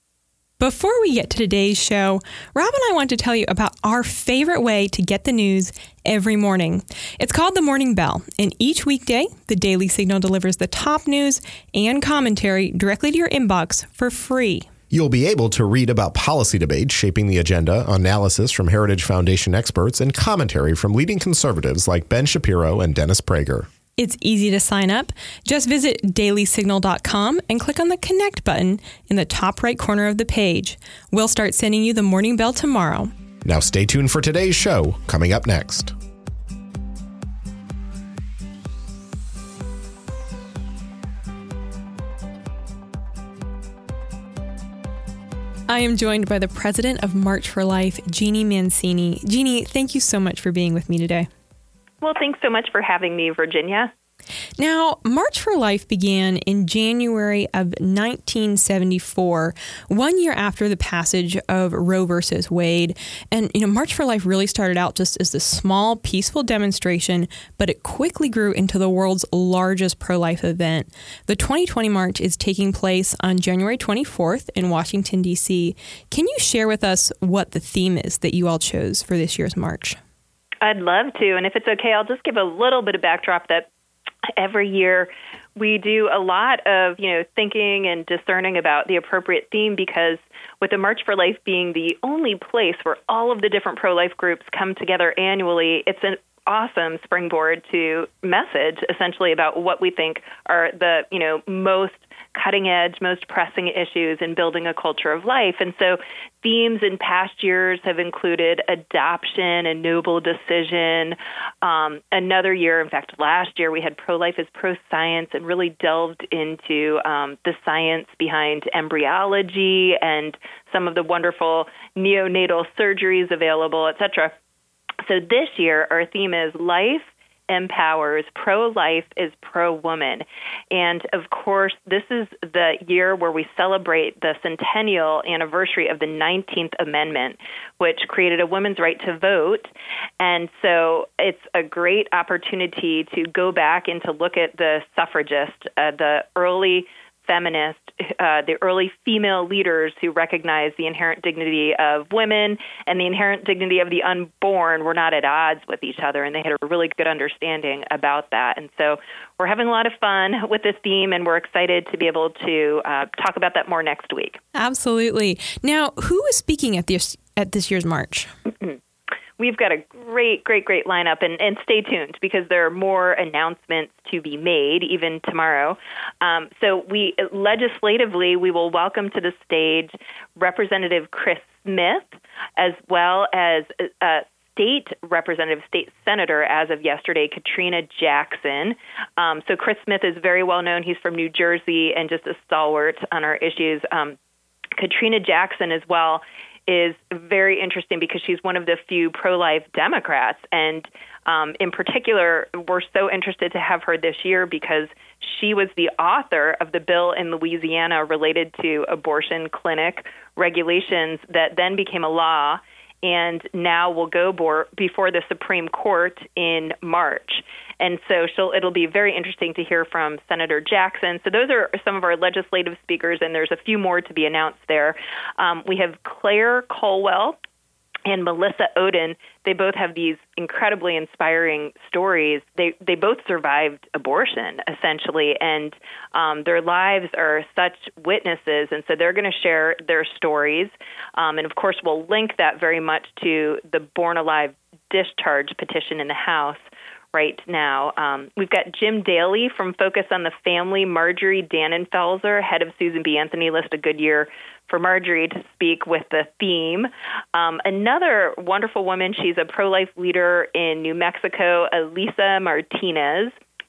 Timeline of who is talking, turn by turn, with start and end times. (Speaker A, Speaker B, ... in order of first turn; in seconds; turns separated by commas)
Speaker A: 0.6-14.7, Speaker B: 14.9-23.7, Speaker A: 24.0-33.1, Speaker B: 33.4-35.9, Speaker A: 45.7-51.3, Speaker C: 52.0-53.9, Speaker A: 54.6-80.0, Speaker C: 80.6-83.7, Speaker C: 84.3-124.3, Speaker C: 125.0-164.4, Speaker A: 164.5-168.3, Speaker C: 169.4-194.2, Speaker C: 194.8-227.4, Speaker C: 228.1-246.6, Speaker C: 247.1-263.3